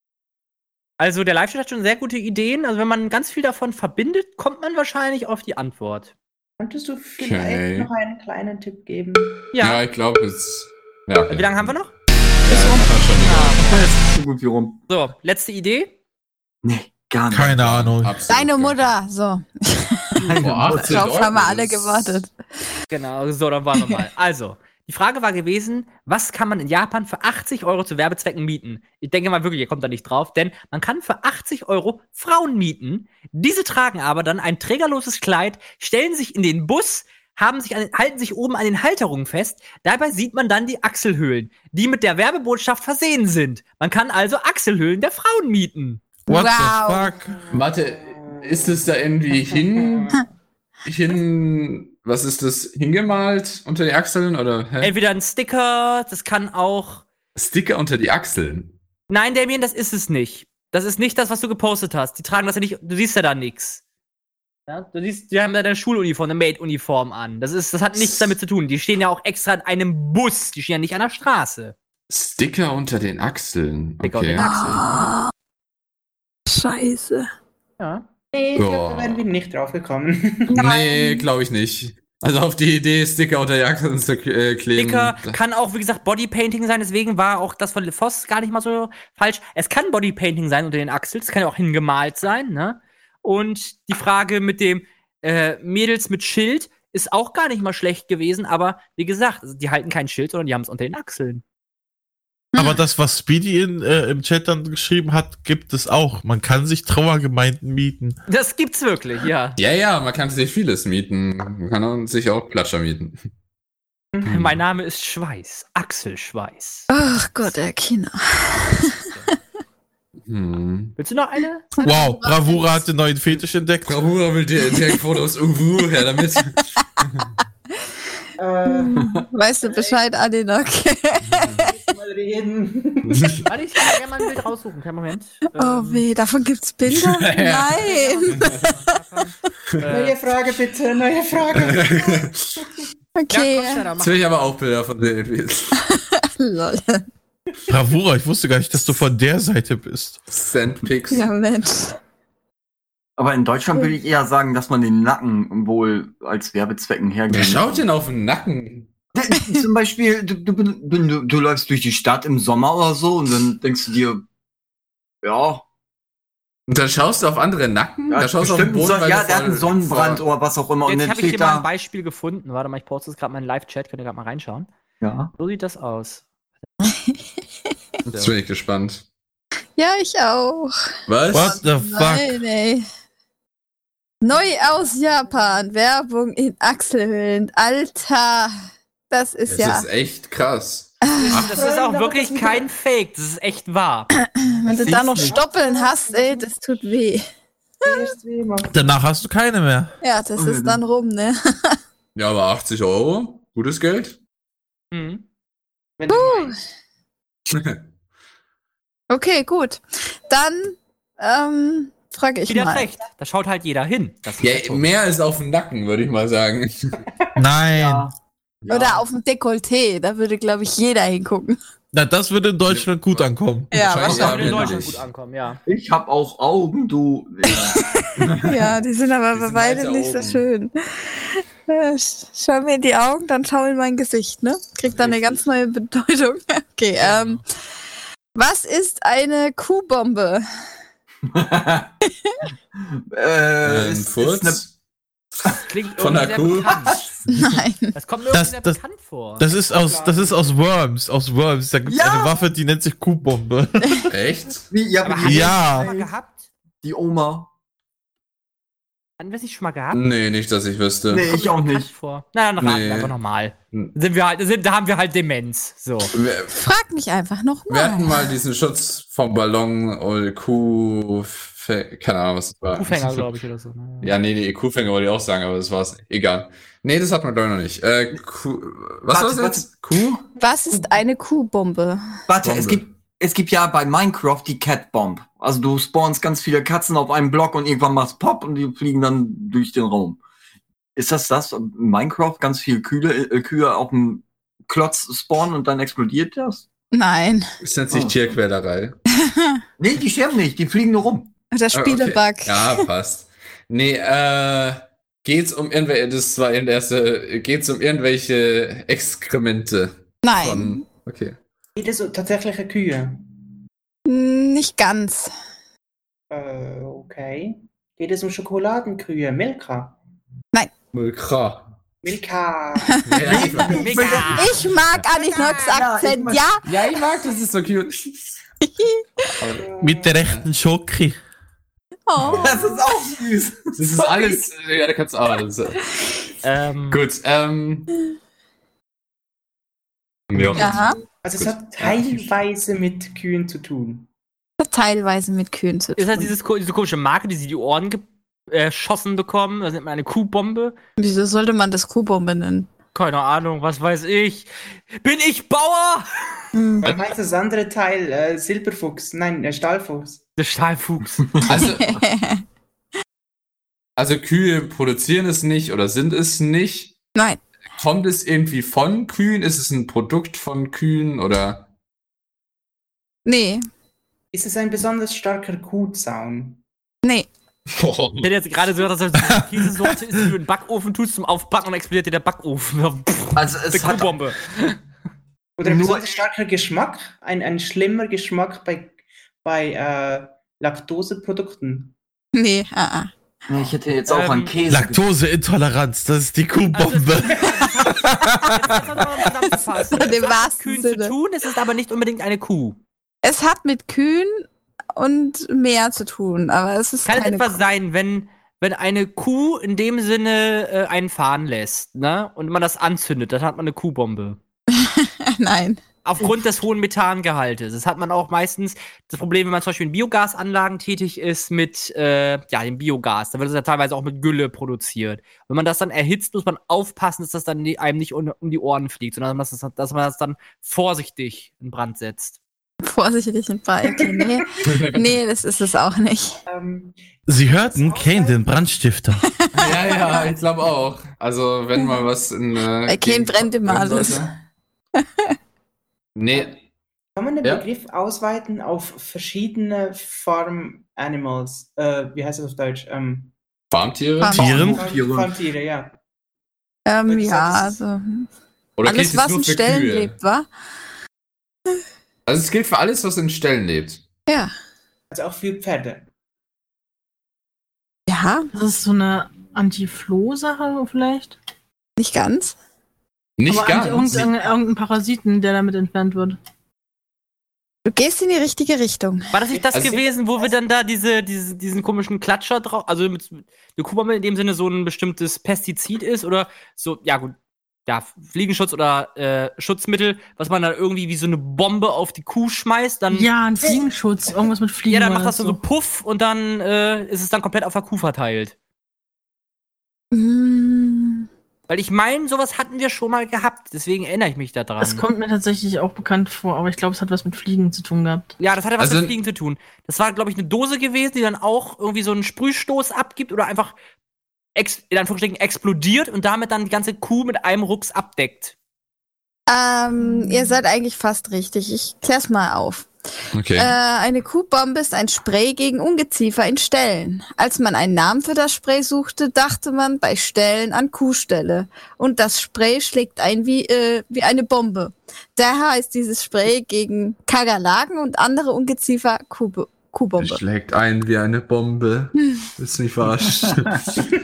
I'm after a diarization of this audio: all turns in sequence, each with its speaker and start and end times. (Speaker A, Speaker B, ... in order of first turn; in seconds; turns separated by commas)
Speaker A: 1.0-6.1, Speaker B: 6.6-9.5, Speaker C: 7.2-7.9, Speaker A: 9.5-9.8, Speaker C: 9.6-11.8, Speaker A: 11.3-11.9, Speaker C: 12.4-13.6, Speaker A: 13.2-13.9, Speaker D: 13.5-14.8, Speaker A: 14.9-15.9, Speaker D: 16.6-17.5, Speaker E: 17.3-18.2, Speaker C: 17.5-18.9, Speaker F: 18.3-22.3, Speaker D: 20.2-21.2, Speaker C: 20.4-22.2, Speaker A: 22.9-46.0, Speaker E: 46.3-47.4, Speaker F: 46.3-47.1, Speaker B: 47.2-50.2, Speaker C: 47.5-50.2, Speaker C: 50.9-55.0, Speaker A: 54.8-57.0, Speaker C: 57.4-58.8, Speaker A: 59.1-63.8, Speaker A: 64.7-71.8, Speaker C: 72.1-74.9, Speaker A: 74.0-75.0, Speaker F: 74.4-75.3, Speaker F: 76.5-77.3, Speaker A: 77.8-78.1, Speaker C: 78.5-79.3, Speaker B: 78.5-80.6, Speaker F: 80.5-81.3, Speaker C: 80.5-85.4, Speaker A: 84.8-101.4, Speaker F: 102.5-102.8, Speaker E: 102.6-108.2, Speaker A: 108.3-109.6, Speaker C: 109.6-113.2, Speaker B: 114.1-114.5, Speaker C: 114.3-114.6, Speaker A: 114.3-116.9, Speaker F: 116.9-119.1, Speaker A: 118.8-119.3, Speaker C: 120.2-121.0, Speaker A: 121.0-121.7, Speaker F: 121.8-122.8, Speaker E: 121.8-124.0, Speaker C: 123.9-127.3, Speaker B: 128.4-129.1, Speaker F: 128.7-131.8, Speaker B: 129.6-130.0, Speaker C: 131.2-131.7, Speaker B: 131.6-133.4, Speaker C: 133.1-133.5, Speaker A: 133.5-136.1, Speaker F: 135.6-138.8, Speaker C: 136.9-138.7, Speaker A: 137.7-140.6, Speaker B: 139.9-142.3, Speaker C: 141.5-142.7, Speaker F: 143.2-143.9, Speaker A: 143.3-144.2, Speaker C: 144.0-145.8, Speaker F: 145.9-147.1, Speaker E: 147.7-150.2, Speaker C: 150.3-151.3, Speaker F: 151.1-152.0, Speaker D: 153.2-157.8, Speaker C: 157.3-158.9, Speaker D: 159.1-164.2, Speaker D: 165.2-165.6, Speaker C: 166.7-170.2, Speaker D: 168.1-171.7, Speaker A: 170.8-174.7, Speaker D: 175.0-175.3, Speaker A: 175.4-176.2, Speaker F: 176.9-177.2, Speaker C: 178.1-179.1, Speaker F: 179.8-180.8, Speaker C: 181.1-181.6, Speaker E: 181.3-182.4, Speaker F: 181.4-182.9, Speaker F: 184.2-188.6, Speaker F: 189.1-189.9, Speaker C: 189.5-191.7, Speaker F: 191.1-191.4, Speaker B: 191.1-192.7, Speaker A: 191.2-194.1, Speaker F: 194.2-197.2, Speaker B: 194.7-196.6, Speaker D: 194.7-195.4, Speaker B: 197.8-198.9, Speaker E: 198.7-199.9, Speaker F: 200.0-201.8, Speaker D: 200.4-200.8, Speaker C: 202.2-204.2, Speaker A: 204.9-205.2, Speaker B: 206.0-206.6, Speaker F: 206.1-206.6, Speaker C: 207.5-207.8, Speaker F: 209.1-212.9, Speaker A: 212.5-214.9, Speaker C: 214.4-217.0, Speaker E: 217.4-218.1, Speaker D: 217.7-218.1, Speaker D: 218.7-219.0, Speaker F: 218.7-221.6, Speaker E: 221.9-223.7, Speaker C: 222.7-225.0, Speaker F: 223.7-224.3, Speaker A: 224.0-225.6, Speaker D: 224.1-224.8, Speaker D: 225.7-227.8, Speaker F: 227.5-237.4, Speaker C: 228.2-228.8, Speaker C: 229.3-230.4, Speaker D: 235.0-235.4, Speaker A: 237.0-237.4, Speaker F: 238.3-240.4, Speaker D: 241.2-241.9, Speaker F: 242.1-242.4, Speaker D: 242.8-244.6, Speaker C: 243.6-244.7, Speaker C: 245.4-247.4, Speaker A: 245.6-247.1, Speaker F: 247.3-247.9, Speaker A: 247.9-249.4, Speaker E: 248.3-248.8, Speaker E: 249.4-254.1, Speaker B: 249.5-250.5, Speaker D: 251.9-252.5, Speaker C: 254.1-254.7, Speaker D: 254.7-256.1, Speaker A: 255.0-256.5, Speaker E: 255.2-255.9, Speaker D: 256.8-257.5, Speaker A: 259.2-260.0, Speaker C: 259.9-261.4, Speaker D: 261.1-261.9, Speaker A: 261.2-266.1, Speaker C: 262.6-263.1, Speaker C: 266.1-266.6, Speaker F: 266.5-268.4, Speaker C: 267.7-273.3, Speaker A: 272.7-274.1, Speaker C: 274.0-280.2, Speaker D: 279.1-280.1, Speaker F: 280.4-282.2, Speaker B: 280.7-281.0, Speaker D: 282.3-290.2, Speaker C: 282.4-282.8, Speaker D: 291.0-296.7, Speaker F: 296.9-297.4, Speaker C: 297.6-298.9, Speaker D: 297.9-298.3, Speaker F: 299.1-299.6, Speaker D: 299.8-301.3, Speaker F: 301.5-302.9, Speaker C: 301.7-311.4, Speaker F: 310.2-310.8, Speaker B: 311.8-313.3, Speaker F: 314.1-315.3, Speaker B: 316.3-320.0, Speaker C: 320.9-321.7, Speaker B: 322.0-323.8, Speaker F: 322.9-323.3, Speaker C: 323.1-324.0, Speaker D: 323.2-324.7, Speaker A: 323.7-324.6, Speaker F: 324.3-327.0, Speaker D: 325.5-326.5, Speaker C: 326.6-328.4, Speaker F: 328.6-329.3, Speaker C: 329.4-329.7, Speaker B: 329.5-330.2, Speaker E: 329.8-331.2, Speaker F: 332.1-332.8, Speaker C: 332.2-332.7, Speaker D: 332.3-334.4, Speaker C: 333.8-335.8, Speaker A: 336.4-337.0, Speaker C: 336.9-337.9, Speaker C: 340.3-342.4, Speaker F: 340.6-341.0, Speaker B: 341.2-344.1, Speaker F: 344.6-346.3, Speaker A: 346.0-350.8, Speaker F: 351.0-352.7, Speaker A: 352.9-356.3, Speaker B: 356.8-360.2, Speaker C: 356.8-357.1, Speaker A: 360.4-361.2, Speaker D: 361.1-362.0, Speaker C: 361.5-361.9, Speaker F: 361.5-362.4, Speaker C: 364.0-366.9, Speaker F: 367.1-367.4, Speaker C: 367.8-371.7, Speaker F: 373.2-373.6, Speaker B: 374.3-376.6, Speaker F: 377.0-377.3, Speaker C: 377.7-378.3, Speaker A: 378.2-384.8, Speaker D: 383.4-384.2, Speaker B: 385.6-392.0, Speaker D: 385.6-386.2, Speaker F: 392.3-393.1, Speaker D: 393.5-395.0, Speaker A: 394.1-394.6, Speaker E: 394.7-398.7, Speaker A: 396.7-402.8, Speaker B: 397.4-397.7, Speaker F: 399.9-401.1, Speaker F: 403.2-407.6, Speaker A: 407.1-414.4, Speaker F: 414.7-415.8, Speaker A: 416.1-432.4, Speaker F: 432.8-436.4, Speaker B: 433.9-434.7, Speaker C: 434.7-435.1, Speaker B: 436.5-438.5, Speaker E: 437.3-439.3, Speaker F: 439.3-440.2, Speaker C: 439.5-444.4, Speaker F: 441.8-442.1, Speaker F: 442.9-444.2, Speaker F: 445.0-445.4, Speaker C: 446.2-446.6, Speaker B: 447.2-453.3, Speaker C: 453.7-454.5, Speaker F: 454.2-454.5, Speaker E: 454.4-454.8, Speaker D: 454.4-455.4, Speaker B: 454.4-456.0, Speaker F: 456.9-458.3, Speaker B: 457.1-457.8, Speaker C: 458.8-460.1, Speaker F: 458.9-460.5, Speaker C: 462.3-464.0, Speaker F: 464.3-464.5, Speaker B: 465.1-466.1, Speaker F: 468.1-468.5, Speaker G: 468.5-471.4, Speaker F: 472.0-472.6, Speaker C: 473.4-474.4, Speaker G: 473.5-476.4, Speaker F: 477.9-479.3, Speaker A: 479.3-487.4, Speaker B: 479.5-480.0, Speaker A: 487.9-493.3, Speaker G: 493.1-495.6, Speaker A: 494.9-498.6, Speaker F: 500.1-501.3, Speaker A: 501.7-505.0, Speaker G: 504.8-508.3, Speaker A: 508.4-513.8, Speaker C: 508.8-509.1, Speaker A: 514.6-518.5, Speaker F: 519.5-522.9, Speaker C: 523.3-523.7, Speaker F: 523.5-540.4, Speaker C: 540.2-544.1, Speaker F: 542.2-542.5